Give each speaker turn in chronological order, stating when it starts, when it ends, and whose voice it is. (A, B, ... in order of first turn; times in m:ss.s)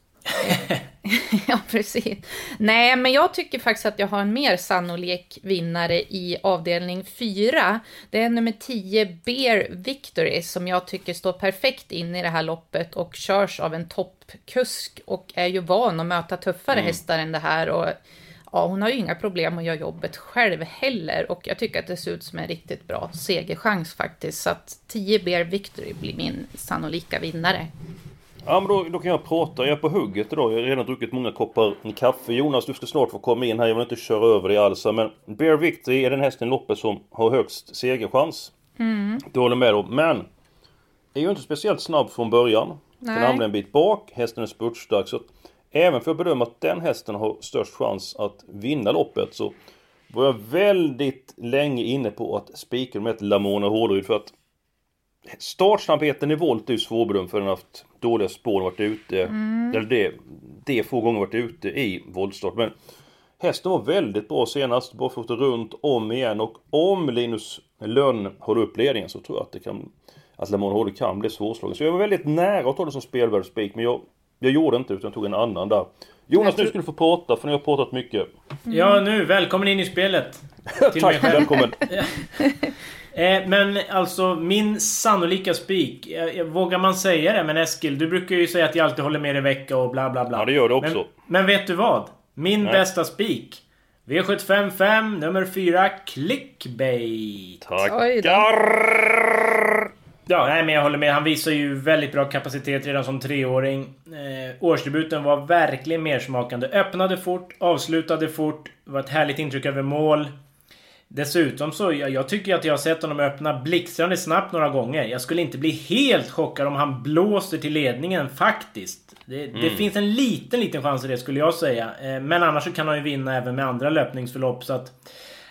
0:00.4-0:18.0 A
0:16.7-0:17.0 B
0:18.5-0:27.7 A
0:28.4-0:38.5 B
0:38.8-0:39.2 A
0:39.3-0:40.2 B
0:41.1-0:49.5 B
0:43.0-0:43.4 A
0:50.1-0:54.3 B
0:55.4-1:02.7 B
0:59.3-0:59.8 A
1:03.4-1:18.3 B
1:16.4-1:16.7 A
1:18.7-1:19.0 A
1:18.7-1:22.2 C
1:20.7-1:21.8 B
1:23.1-1:37.6 C
1:30.3-1:31.1 B
1:37.6-1:39.6 B
1:37.8-1:38.4 A
1:40.3-1:50.3 C
1:51.1-2:04.9 C
1:59.5-1:59.9 B